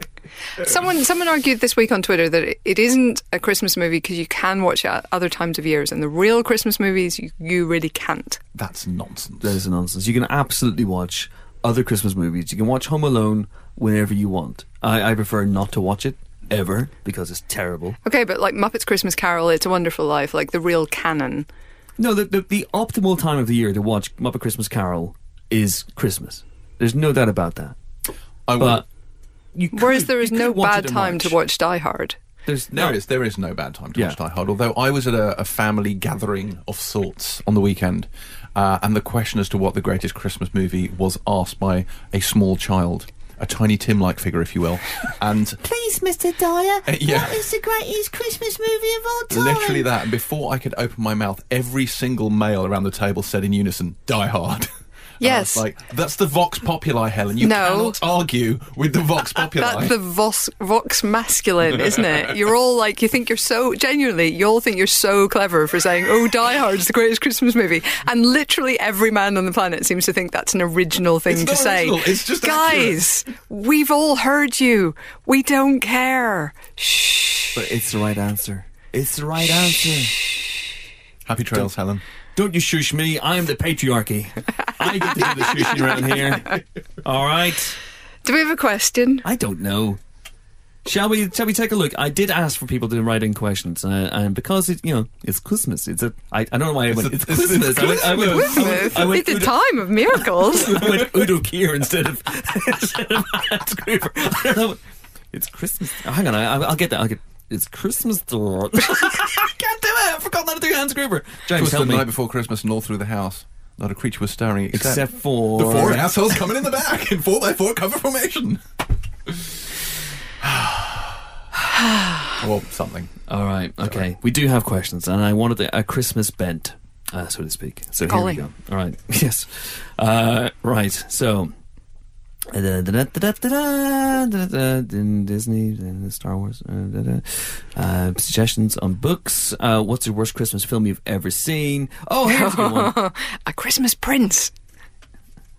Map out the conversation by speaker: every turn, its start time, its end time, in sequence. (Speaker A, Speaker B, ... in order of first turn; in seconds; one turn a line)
Speaker A: 0.6-8.4
Speaker B: 8.5-9.6
Speaker C: 9.4-18.0
Speaker A: 18.0-21.5
Speaker C: 22.0-27.8
Speaker B: 28.5-28.8
Speaker C: 28.6-28.9
Speaker C: 29.5-31.3
Speaker A: 29.7-32.1
Speaker C: 32.5-33.0
Speaker B: 32.7-45.6
Speaker D: 45.6-49.9
Speaker B: 46.9-47.5
Speaker B: 49.3-60.0
Speaker A: 55.2-55.6
Speaker A: 57.4-58.0
Speaker A: 59.4-77.5
Speaker B: 71.3-73.1
Speaker C: 77.5-80.2
Speaker B: 81.2-82.0
Speaker C: 82.3-87.8
Speaker A: 88.2-89.2
Speaker C: 89.2-90.0
Speaker C: 90.8-99.6
Speaker B: 96.9-99.2
Speaker A: 98.1-101.1
Speaker C: 100.1-104.8
Speaker C: 105.3-112.1
Speaker B: 111.5-118.6
Speaker C: 114.7-116.1
Speaker B: 119.3-119.5
Speaker B: 120.4-121.2
Speaker B: 122.4-123.1
Speaker C: 123.3-131.5
Speaker A: 128.1-128.4
Speaker C: 132.5-143.0
Speaker A: 142.2-144.5